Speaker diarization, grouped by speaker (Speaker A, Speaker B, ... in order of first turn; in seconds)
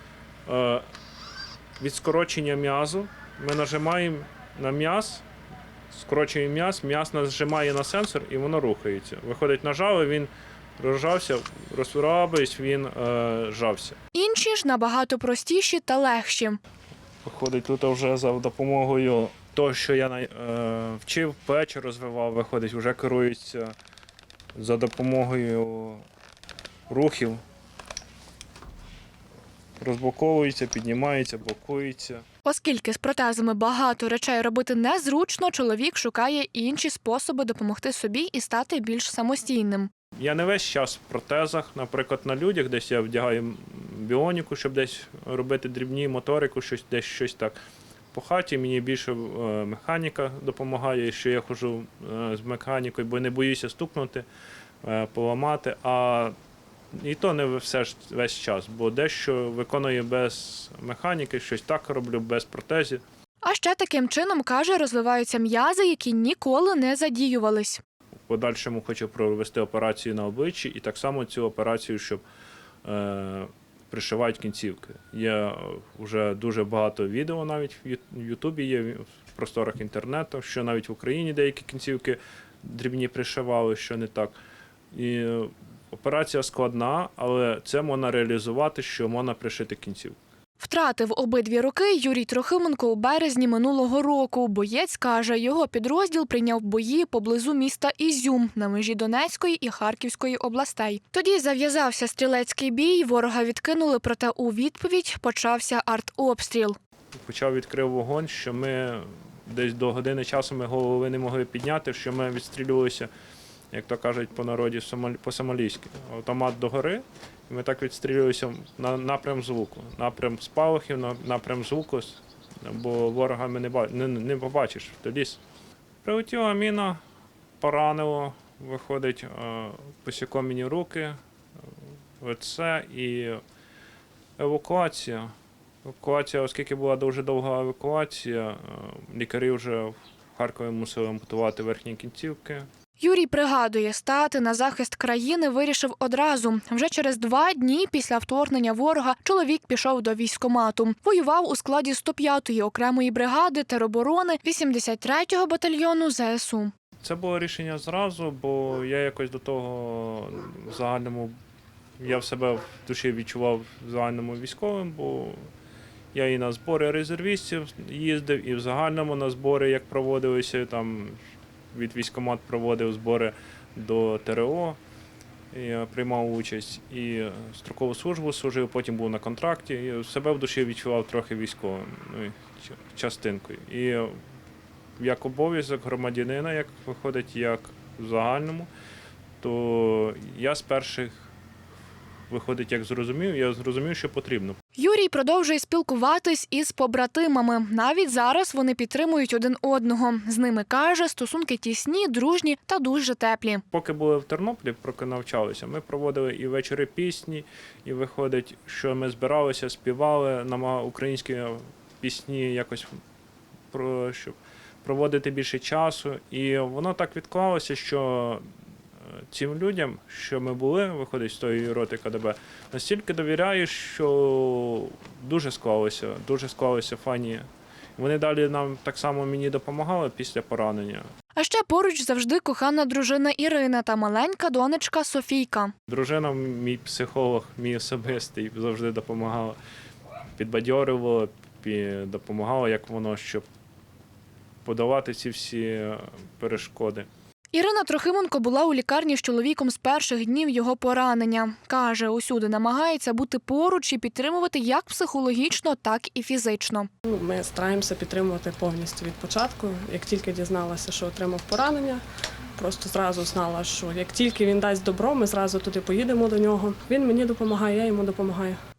Speaker A: 0.5-0.8, 1.8-5.2, 5.9-14.0, 17.2-23.7, 24.6-26.0, 26.9-27.4, 29.8-32.2, 40.2-47.5, 48.1-54.2, 54.8-56.3, 56.9-63.0, 68.3-72.2, 72.8-84.3, 84.9-90.2, 107.1-113.1, 113.7-125.4, 126.0-127.0, 127.6-131.2, 132.2-133.4, 134.4-135.3, 135.8-142.7, 157.0-161.3, 162.0-165.5, 166.1-171.2, 171.7-174.8, 175.5-184.2, 185.0-188.7, 189.4-191.2, 192.3-194.6, 203.7-213.0, 213.7-218.4, 219.1-227.4, 228.0-231.1, 235.9-239.6, 240.4-243.4, 244.6-247.1
Speaker B: 14.1-16.6, 32.4-39.9, 63.4-67.8, 90.6-106.8, 143.0-156.7, 194.8-203.6, 231.3-235.7, 247.5-256.9
Speaker C: 257.1-262.0, 262.6-268.6